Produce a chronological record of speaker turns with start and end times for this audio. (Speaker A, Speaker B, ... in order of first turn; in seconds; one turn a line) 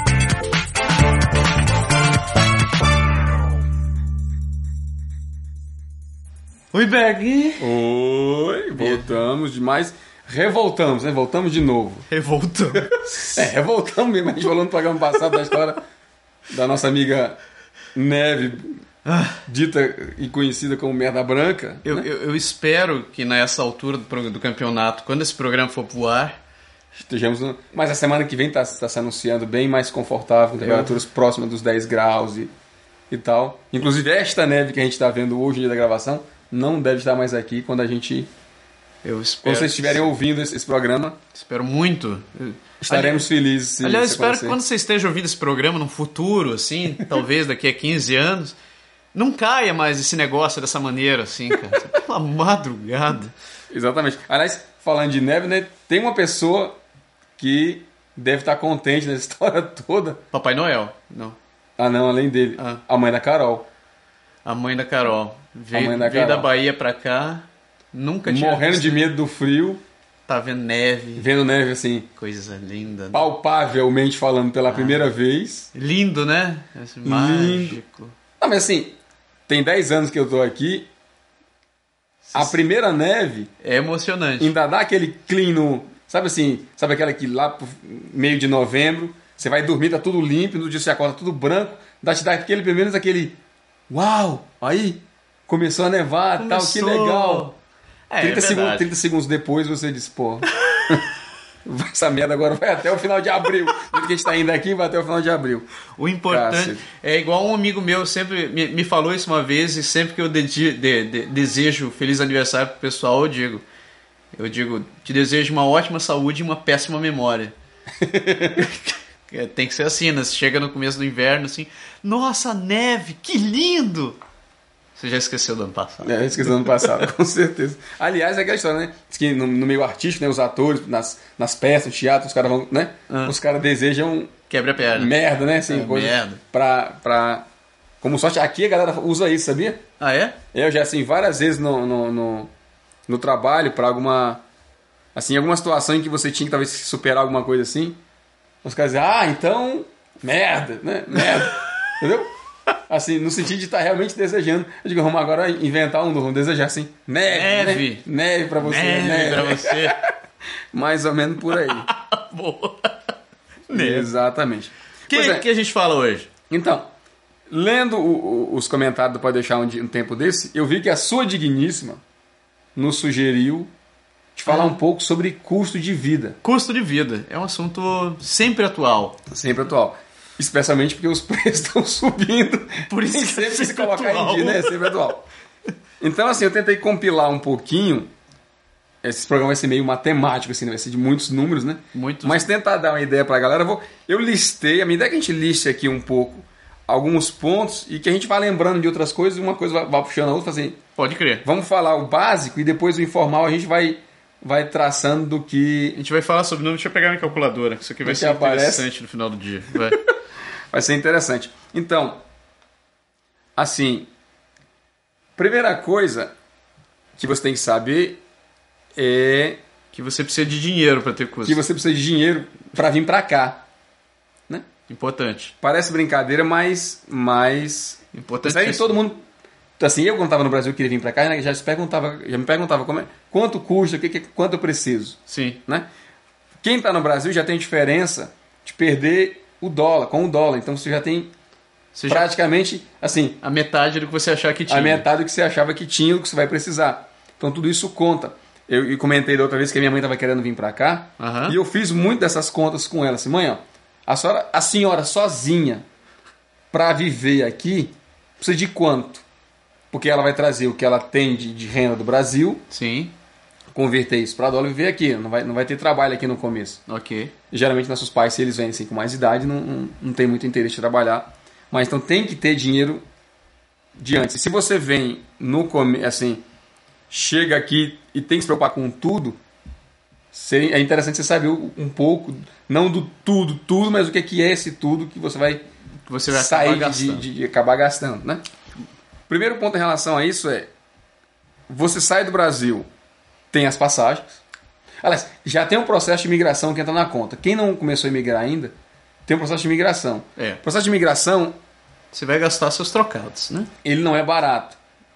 Speaker A: 6.7-7.7
Speaker B: 7.6-12.1
Speaker A: 8.7-9.1
Speaker A: 12.1-13.5
Speaker B: 12.8-15.8
Speaker B: 16.5-17.4
Speaker B: 17.9-18.8
Speaker A: 19.1-19.4
Speaker B: 19.5-22.1
Speaker A: 21.8-26.4
Speaker B: 26.9-32.5
Speaker A: 30.6-31.0
Speaker B: 33.1-38.3
Speaker A: 39.0-40.1
Speaker B: 39.4-41.2
Speaker A: 41.3-43.2
Speaker B: 42.8-44.6
Speaker A: 43.8-48.6
Speaker A: 49.1-53.3
Speaker B: 53.7-56.8
Speaker B: 57.4-60.2
Speaker A: 60.3-61.4
Speaker B: 61.8-63.7
Speaker A: 62.6-62.8
Speaker A: 64.4-69.1
Speaker B: 65.7-66.5
Speaker B: 68.2-69.8
Speaker A: 70.3-71.3
Speaker B: 71.2-72.1
Speaker A: 72.2-73.3
Speaker B: 73.1-75.7
Speaker A: 74.7-75.1
Speaker A: 75.7-78.1
Speaker B: 77.0-77.8
Speaker B: 78.4-79.0
Speaker B: 79.5-80.9
Speaker A: 82.2-82.6
Speaker B: 82.3-83.5
Speaker A: 83.6-84.5
Speaker B: 84.4-93.4
Speaker B: 93.9-97.5
Speaker A: 96.4-97.5
Speaker A: 98.1-98.9
Speaker B: 98.2-101.0
Speaker B: 101.6-105.7
Speaker A: 105.9-113.6
Speaker B: 106.3-106.8
Speaker A: 114.3-117.5
Speaker B: 118.0-118.7
Speaker A: 118.5-124.2
Speaker A: 125.0-127.0
Speaker B: 126.0-134.3
Speaker A: 133.1-133.3
Speaker A: 134.5-135.1
Speaker B: 134.9-137.4
Speaker A: 135.7-136.4
Speaker B: 138.0-139.8
Speaker A: 140.0-140.4
Speaker B: 140.5-142.5
Speaker B: 143.1-144.4
Speaker B: 145.1-148.0
Speaker B: 148.6-152.3
Speaker B: 152.9-160.0
Speaker A: 157.3-158.1
Speaker A: 158.6-160.0
Speaker B: 160.7-161.9
Speaker A: 161.5-163.1
Speaker A: 163.7-164.1
Speaker B: 163.7-165.4
Speaker A: 165.1-166.3
Speaker B: 166.5-166.9
Speaker B: 167.5-172.0
Speaker B: 172.7-173.7
Speaker B: 174.3-176.4
Speaker A: 174.5-174.8
Speaker A: 176.4-179.2
Speaker B: 179.3-185.2
Speaker A: 182.9-184.9
Speaker B: 186.0-188.1
Speaker B: 189.0-200.8
Speaker A: 191.9-192.5
Speaker A: 201.0-201.4
Speaker B: 201.4-206.0
Speaker A: 205.9-210.0
Speaker B: 208.0-208.9
Speaker B: 210.7-212.2
Speaker B: 213.6-214.1
Speaker B: 215.4-216.3
Speaker B: 217.2-218.2
Speaker B: 218.9-219.6
Speaker A: 219.9-221.6
Speaker B: 221.4-223.6
Speaker A: 224.9-225.5
Speaker B: 225.6-229.2
Speaker A: 228.1-229.0
Speaker B: 229.8-235.9
Speaker A: 235.3-235.6
Speaker B: 236.6-241.3
Speaker A: 241.9-242.3
Speaker B: 242.1-243.4
Speaker A: 243.4-245.1
Speaker B: 244.7-255.8
Speaker A: 251.2-251.6
Speaker B: 256.7-259.2
Speaker B: 259.9-262.6
Speaker A: 262.7-263.1
Speaker B: 263.7-266.8
Speaker A: 266.9-267.3
Speaker B: 267.5-273.0
Speaker B: 273.9-276.4
Speaker B: 277.1-279.4
Speaker B: 280.3-285.6
Speaker A: 286.1-287.2
Speaker B: 286.3-288.4
Speaker B: 289.3-290.7
Speaker B: 291.7-292.9
Speaker B: 293.5-294.4
Speaker B: 295.0-298.7
Speaker B: 299.2-301.6
Speaker A: 302.1-303.7
Speaker B: 303.8-304.8